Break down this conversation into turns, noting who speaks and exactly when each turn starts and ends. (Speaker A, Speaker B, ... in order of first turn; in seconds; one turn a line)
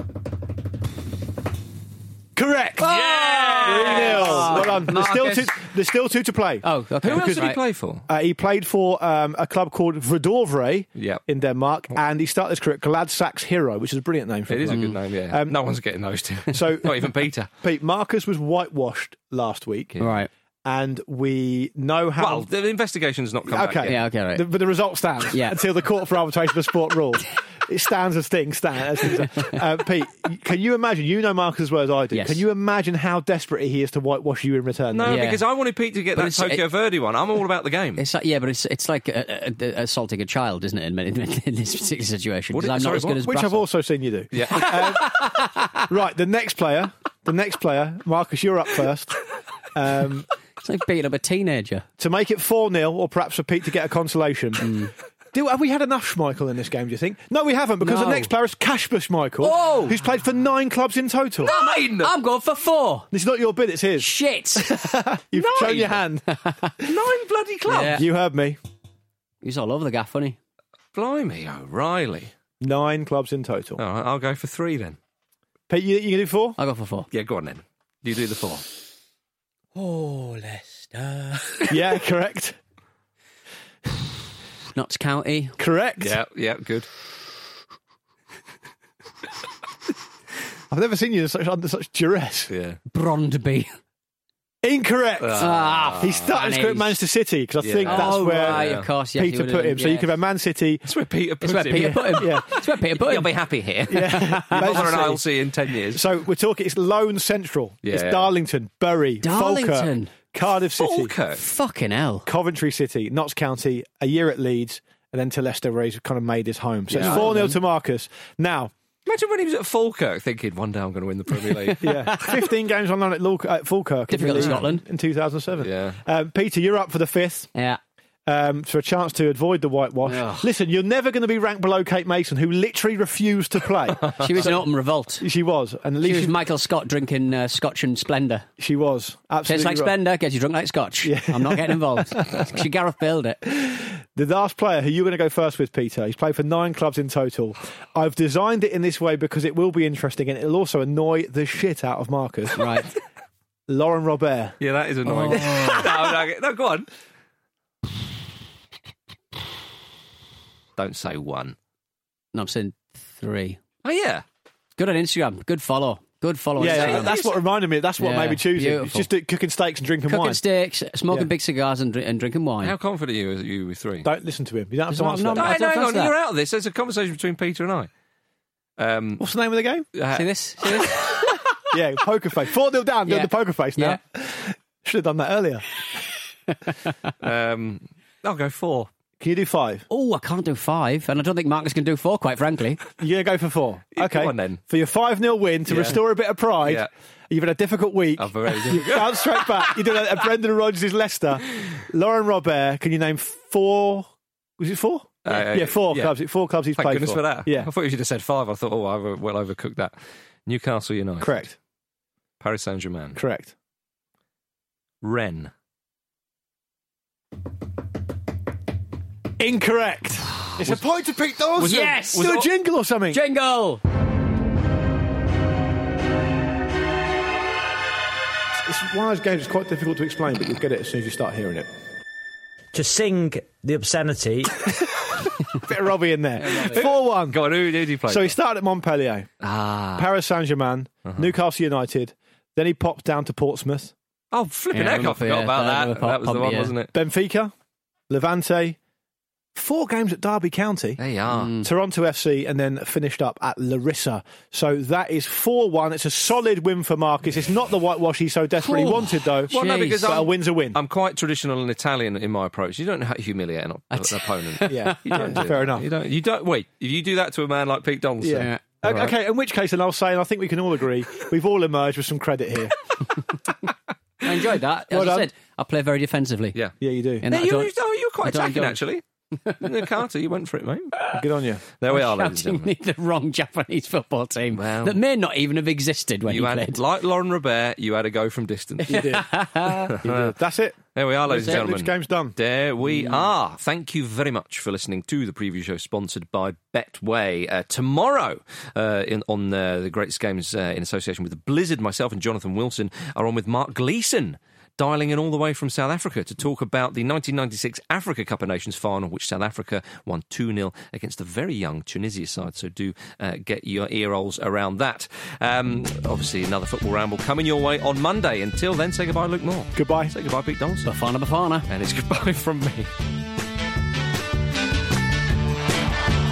Speaker A: 2.4-7.5
Speaker B: 2.8-4.9
Speaker C: 3.0-5.5
Speaker C: 6.6-7.6
Speaker B: 7.0-8.1
Speaker A: 8.1-15.6
Speaker B: 10.9-11.2
Speaker B: 14.5-17.5
Speaker C: 14.7-14.9
Speaker A: 16.5-20.0
Speaker B: 19.9-20.2
Speaker C: 20.0-20.3
Speaker A: 20.6-22.5
Speaker B: 22.2-24.0
Speaker A: 23.5-35.2
Speaker C: 23.9-24.5
Speaker C: 25.3-25.6
Speaker C: 32.1-32.4
Speaker B: 34.9-38.0
Speaker C: 35.0-35.4
Speaker C: 36.1-36.6
Speaker C: 38.0-43.7
Speaker B: 42.5-43.2
Speaker A: 43.2-49.2
Speaker B: 44.3-44.7
Speaker C: 44.5-45.9
Speaker A: 49.7-50.3
Speaker C: 50.6-51.9
Speaker A: 52.0-54.6
Speaker C: 54.6-54.9
Speaker A: 55.3-61.5
Speaker C: 57.8-58.3
Speaker C: 59.4-60.0
Speaker B: 61.4-62.1
Speaker C: 61.4-63.1
Speaker A: 63.1-66.4
Speaker C: 64.0-65.0
Speaker B: 65.3-66.0
Speaker C: 66.4-66.7
Speaker B: 66.8-68.0
Speaker C: 67.7-68.0
Speaker A: 67.9-68.6
Speaker C: 69.4-70.4
Speaker B: 70.9-72.3
Speaker A: 72.6-73.8
Speaker B: 73.8-75.0
Speaker A: 75.7-76.6
Speaker C: 76.6-77.1
Speaker B: 77.1-78.6
Speaker C: 79.7-81.8
Speaker A: 81.7-82.6
Speaker C: 84.7-85.6
Speaker A: 85.6-86.2
Speaker B: 86.0-86.9
Speaker A: 90.7-92.5
Speaker B: 92.5-92.8
Speaker C: 92.9-93.7
Speaker A: 94.6-100.8
Speaker B: 95.2-96.2
Speaker C: 95.4-97.0
Speaker B: 97.6-98.9
Speaker C: 97.8-100.1
Speaker B: 100.8-106.0
Speaker C: 101.4-103.3
Speaker A: 102.2-102.5
Speaker C: 103.9-105.1
Speaker A: 103.9-105.2
Speaker A: 105.9-111.1
Speaker B: 107.8-108.3
Speaker C: 109.2-110.2
Speaker B: 110.8-111.4
Speaker C: 111.3-112.2
Speaker A: 112.2-118.7
Speaker C: 116.9-117.5
Speaker B: 119.0-122.2
Speaker C: 121.4-122.4
Speaker A: 121.8-127.5
Speaker C: 124.1-124.8
Speaker B: 124.2-124.6
Speaker B: 125.6-126.0
Speaker C: 127.5-127.8
Speaker A: 128.2-134.6
Speaker C: 130.1-130.5
Speaker C: 134.2-135.3
Speaker A: 135.2-136.3
Speaker C: 136.0-138.5
Speaker A: 138.6-139.9
Speaker C: 139.4-143.4
Speaker A: 141.0-142.5
Speaker A: 143.5-152.8
Speaker C: 152.6-152.9
Speaker A: 153.7-154.6
Speaker B: 154.6-156.9
Speaker C: 155.1-156.1
Speaker A: 155.3-155.7
Speaker B: 160.8-161.6
Speaker C: 162.3-163.6
Speaker B: 163.8-164.2
Speaker C: 164.8-167.2
Speaker A: 166.6-170.4
Speaker B: 166.6-167.4
Speaker C: 168.0-169.1
Speaker C: 170.1-172.7
Speaker B: 172.6-174.1
Speaker A: 174.0-175.6
Speaker C: 174.9-176.1
Speaker B: 175.3-177.9
Speaker B: 178.8-179.2
Speaker A: 179.2-179.9
Speaker B: 179.9-180.2
Speaker C: 180.1-181.4
Speaker A: 181.7-185.7
Speaker C: 183.1-184.0
Speaker B: 187.2-188.9
Speaker A: 189.2-189.8
Speaker C: 189.9-192.9
Speaker A: 193.0-207.7
Speaker B: 193.9-194.6
Speaker B: 195.7-196.0
Speaker B: 196.6-196.9
Speaker B: 198.2-199.8
Speaker B: 205.2-206.2
Speaker B: 206.7-209.9
Speaker B: 210.4-211.5
Speaker A: 211.2-211.5
Speaker B: 212.4-213.2
Speaker A: 213.2-213.5
Speaker B: 215.0-215.5
Speaker A: 219.4-223.2
Speaker B: 220.5-220.8
Speaker B: 221.6-222.5
Speaker C: 221.6-222.4
Speaker C: 223.1-223.8
Speaker A: 228.6-231.7
Speaker D: 232.7-234.7
Speaker A: 235.5-237.5
Speaker B: 236.4-238.4
Speaker C: 236.4-236.9
Speaker A: 238.1-239.3
Speaker B: 239.4-240.1
Speaker A: 239.9-243.9
Speaker B: 241.0-241.3
Speaker B: 244.3-246.9
Speaker C: 244.7-246.7
Speaker A: 246.9-247.5
Speaker A: 248.1-248.8
Speaker A: 249.5-251.0
Speaker B: 251.0-251.6
Speaker C: 251.3-251.7
Speaker A: 251.6-260.8
Speaker C: 258.6-260.1
Speaker B: 259.5-269.1
Speaker C: 263.9-265.4
Speaker A: 264.6-265.9
Speaker A: 268.2-272.7
Speaker C: 268.3-268.6
Speaker C: 274.2-276.6
Speaker A: 274.9-275.3
Speaker A: 276.8-277.3
Speaker C: 277.2-278.8
Speaker B: 277.2-281.0
Speaker C: 279.4-279.9
Speaker C: 281.0-281.2
Speaker A: 281.1-281.6
Speaker B: 281.8-282.7
Speaker C: 281.9-286.8
Speaker B: 284.5-285.0
Speaker B: 286.2-289.1
Speaker A: 288.8-292.4
Speaker C: 288.9-290.0
Speaker B: 289.9-290.3
Speaker B: 290.9-320.9
Speaker C: 291.3-291.6
Speaker A: 319.7-320.1
Speaker C: 320.8-321.7
Speaker B: 321.7-322.9